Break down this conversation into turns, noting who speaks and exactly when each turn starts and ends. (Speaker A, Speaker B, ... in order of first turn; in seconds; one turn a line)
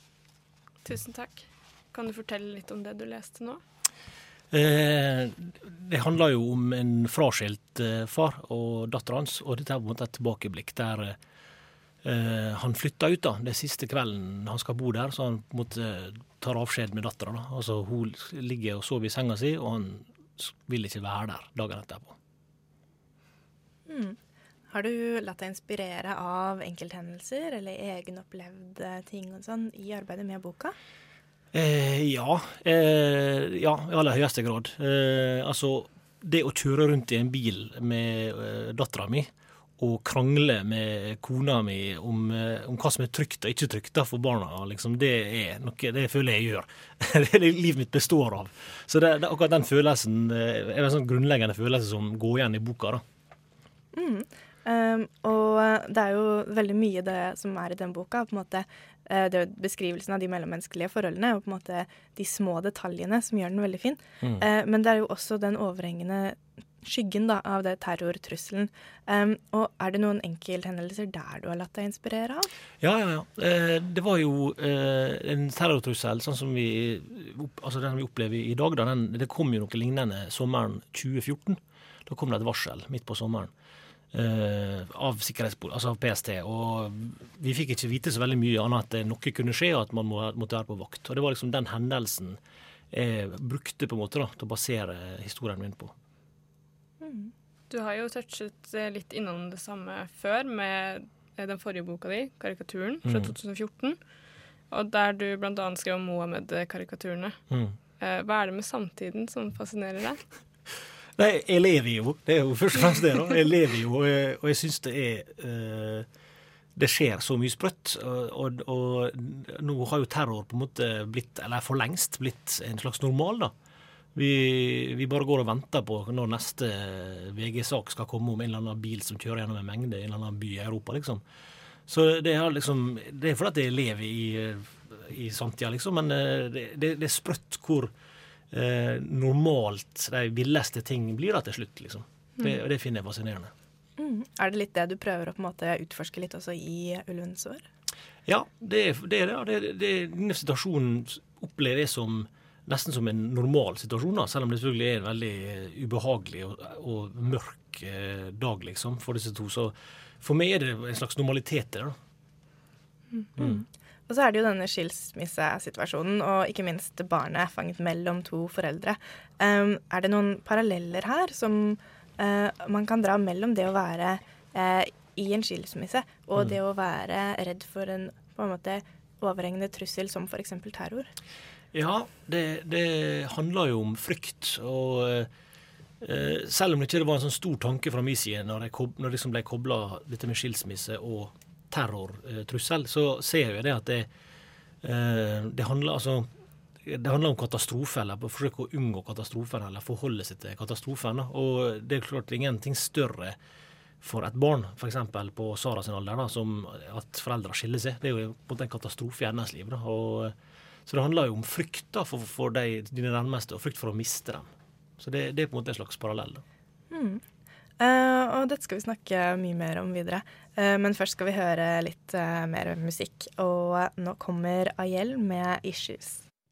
Speaker A: 0.8-3.6
Speaker B: 4.5-11.2
Speaker B: 12.0-22.2
Speaker C: 23.9-24.2
Speaker C: 24.7-30.8
Speaker B: 31.5-53.0
Speaker C: 53.9-72.5
Speaker B: 72.8-83.5
Speaker B: 84.1-92.4
Speaker B: 92.9-95.9
Speaker C: 97.0-97.3
Speaker A: 97.7-104.0
Speaker B: 103.0-103.3
Speaker A: 104.7-107.4
Speaker B: 107.5-107.8
Speaker A: 108.0-110.2
Speaker B: 111.2-116.1
Speaker B: 116.8-123.5
Speaker B: 124.2-131.2
Speaker B: 131.9-137.9
Speaker B: 138.5-143.5
Speaker C: 144.0-147.7
Speaker B: 148.3-161.9
Speaker B: 163.4-163.6
Speaker C: 164.1-181.1
Speaker B: 181.7-185.3
Speaker B: 186.0-194.1
Speaker B: 194.8-196.3
Speaker B: 196.9-203.4
Speaker B: 204.0-210.3
Speaker B: 210.9-214.5
Speaker B: 215.0-216.4
Speaker C: 216.9-217.2
Speaker C: 217.8-226.2